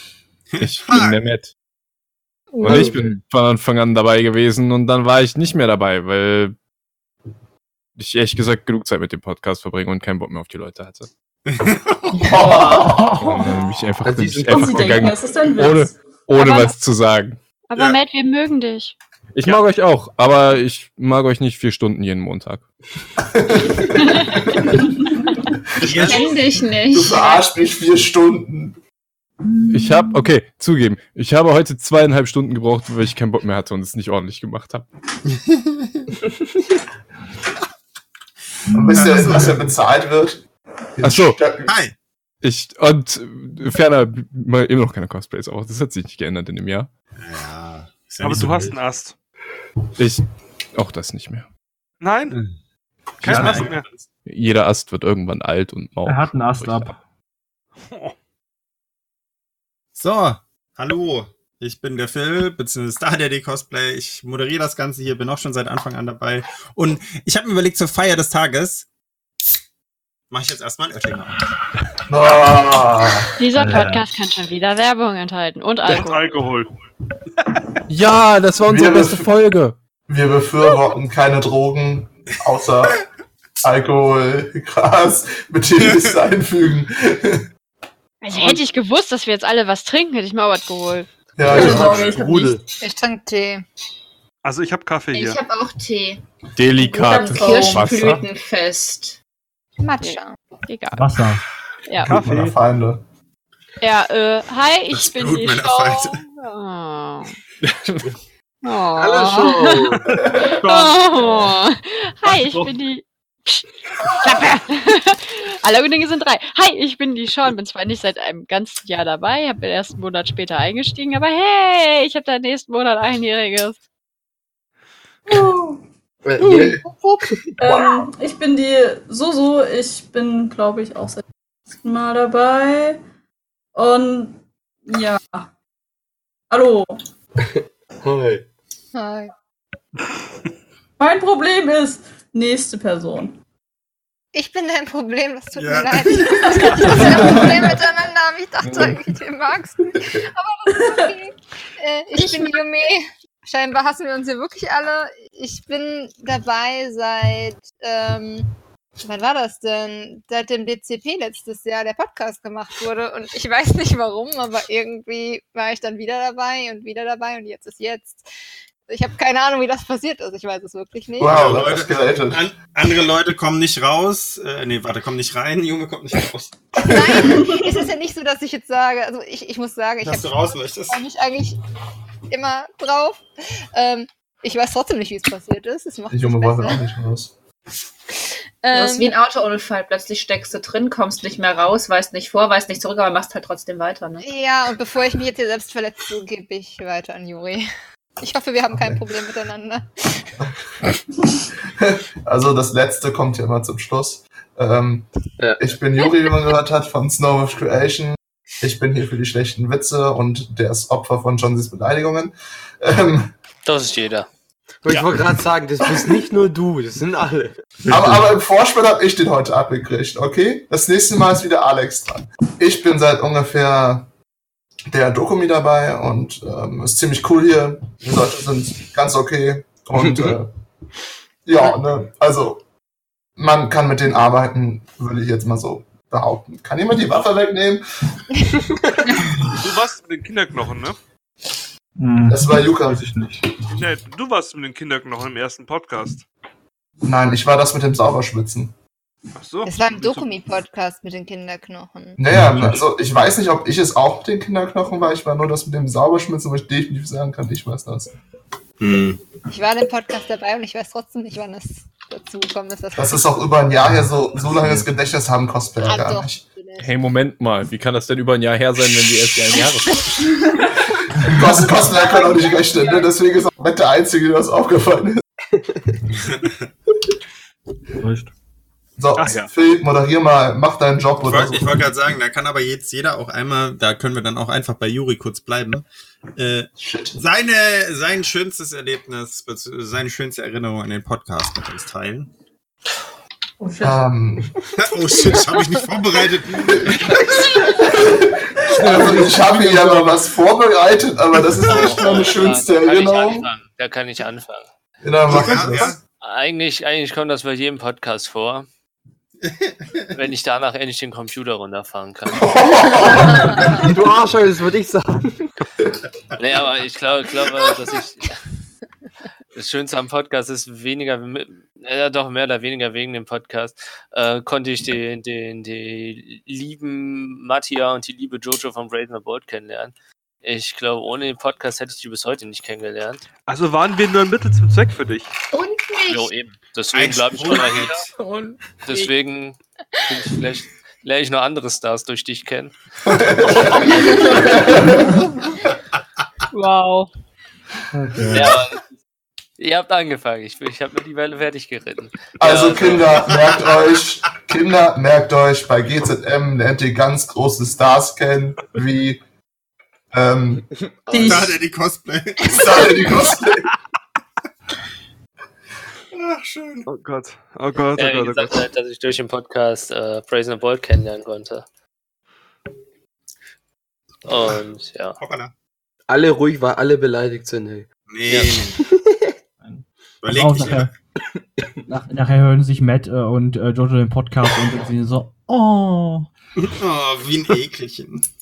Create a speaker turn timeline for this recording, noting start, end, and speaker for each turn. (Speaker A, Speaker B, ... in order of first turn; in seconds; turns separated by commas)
Speaker A: 0.5-1.2, Speaker B: 0.6-1.5, Speaker B: 2.6-6.5, Speaker C: 2.6-3.0, Speaker B: 8.0-11.1, Speaker A: 11.5-12.4, Speaker D: 12.2-13.2, Speaker B: 12.8-17.4, Speaker C: 14.0-15.1, Speaker E: 14.5-15.9, Speaker F: 16.4-16.8, Speaker F: 17.7-18.9, Speaker B: 19.3-22.6, Speaker D: 23.2-24.8, Speaker F: 24.0-24.7, Speaker A: 25.8-26.4, Speaker D: 25.8-26.3, Speaker G: 25.9-27.5, Speaker D: 26.9-28.8, Speaker B: 29.7-34.9, Speaker A: 35.3-36.1, Speaker D: 38.7-40.4, Speaker A: 39.0-39.6, Speaker D: 41.0-41.7, Speaker B: 41.0-41.4, Speaker A: 41.7-42.0, Speaker B: 42.4-46.9, Speaker A: 47.2-48.8, Speaker H: 48.2-49.1, Speaker B: 50.0-50.2, Speaker B: 50.8-51.5, Speaker H: 52.0-52.4, Speaker B: 53.2-53.8, Speaker H: 53.2-53.9, Speaker A: 53.2-54.0, Speaker I: 53.2-53.7, Speaker B: 54.3-56.9, Speaker I: 56.0-57.0, Speaker H: 57.9-58.1, Speaker A: 60.0-68.9, Speaker A: 70.3-71.4, Speaker D: 72.1-73.3, Speaker F: 73.4-76.4, Speaker I: 73.6-74.0, Speaker H: 75.8-76.7, Speaker B: 77.9-79.8, Speaker D: 78.7-79.3, Speaker D: 80.1-83.0, Speaker D: 83.6-87.5, Speaker F: 88.2-92.5, Speaker D: 91.4-92.2, Speaker C: 91.4-92.6, Speaker E: 91.6-91.9, Speaker J: 92.8-93.7, Speaker H: 94.4-95.4, Speaker G: 95.1-96.2, Speaker B: 96.5-98.2, Speaker G: 96.8-99.2, Speaker F: 97.1-97.5, Speaker J: 99.8-100.4, Speaker F: 100.0-101.2, Speaker I: 101.0-101.4, Speaker F: 101.9-102.2, Speaker H: 102.1-102.5, Speaker D: 102.1-103.0, Speaker F: 103.8-107.4, Speaker A: 104.9-106.2, Speaker B: 107.6-108.1, Speaker F: 108.6-123.8, Speaker C: 109.0-110.0, Speaker D: 110.2-110.5, Speaker H: 110.7-111.5, Speaker H: 112.2-112.7, Speaker E: 125.3-125.8, Speaker C: 126.2-127.9, Speaker E: 127.6-131.2, Speaker E: 131.8-133.0, Speaker E: 133.8-135.5, Speaker E: 136.5-136.9, Speaker C: 138.0-138.5, Speaker J: 138.9-139.3, Speaker E: 141.0-143.4, Speaker J: 144.3-168.2, Speaker A: 145.6-147.0, Speaker B: 148.6-149.0, Speaker E: 150.7-151.1, Speaker G: 152.2-152.6, Speaker J: 168.9-171.6, Speaker D: 171.2-172.4, Speaker A: 171.3-176.5, Speaker J: 176.8-181.6, Speaker A: 180.0-181.0, Speaker J: 182.3-183.2, Speaker J: 183.7-186.8, Speaker D: 186.1-187.3, Speaker J: 188.6-189.2, Speaker G: 188.7-194.2, Speaker J: 194.2-197.7, Speaker J: 198.2-199.9, Speaker D: 198.7-199.0, Speaker D: 201.8-213.3, Speaker C: 205.4-205.7, Speaker K: 213.7-214.3, Speaker C: 214.8-218.2, Speaker D: 217.9-224.1, Speaker D: 224.9-230.5, Speaker D: 231.4-232.6, Speaker D: 233.4-237.8, Speaker H: 239.6-241.0, Speaker I: 242.0-243.5, Speaker D: 242.3-243.1, Speaker H: 243.7-246.2, Speaker D: 247.0-248.7, Speaker H: 249.4-250.3, Speaker J: 249.7-252.2, Speaker D: 252.2-258.1, Speaker I: 252.3-252.9, Speaker A: 258.8-259.2, Speaker J: 259.5-263.5, Speaker D: 262.9-266.4, Speaker I: 263.8-264.9, Speaker J: 265.8-266.9, Speaker B: 266.8-270.4, Speaker D: 271.2-275.2, Speaker J: 271.7-273.1, Speaker I: 278.0-278.3, Speaker D: 279.0-281.9, Speaker H: 279.2-279.5, Speaker A: 281.2-292.3, Speaker D: 286.8-287.2, Speaker D: 293.8-294.5, Speaker A: 294.8-297.6, Speaker D: 296.6-303.5, Speaker I: 298.7-300.2, Speaker K: 301.6-304.7, Speaker D: 305.0-306.0, Speaker A: 305.3-306.0, Speaker K: 306.2-308.7, Speaker A: 309.4-310.1, Speaker K: 310.1-312.5, Speaker D: 312.3-313.9, Speaker C: 313.7-315.5, Speaker K: 316.4-318.4, Speaker K: 319.5-333.2, Speaker H: 333.5-335.3, Speaker G: 335.5-336.3, Speaker K: 336.1-338.1, Speaker A: 336.9-338.1, Speaker J: 338.2-338.6, Speaker K: 338.9-342.7, Speaker D: 343.1-345.2, Speaker K: 343.5-344.5, Speaker F: 346.5-347.1, Speaker I: 348.0-348.4, Speaker K: 348.3-348.8, Speaker K: 349.6-353.3, Speaker D: 352.4-359.2, Speaker D: 360.1-360.7, Speaker C: 361.1-361.5, Speaker E: 361.1-361.5, Speaker A: 361.1-362.9, Speaker D: 362.4-363.7, Speaker A: 366.1-366.9, Speaker H: 366.9-368.5, Speaker K: 368.0-371.6, Speaker K: 374.2-375.2, Speaker A: 375.2-375.5, Speaker C: 376.1-377.9, Speaker A: 378.1-378.8, Speaker K: 378.3-378.6, Speaker C: 378.8-379.3, Speaker I: 379.6-380.9, Speaker A: 380.2-380.9, Speaker I: 381.9-386.3, Speaker A: 386.6-388.3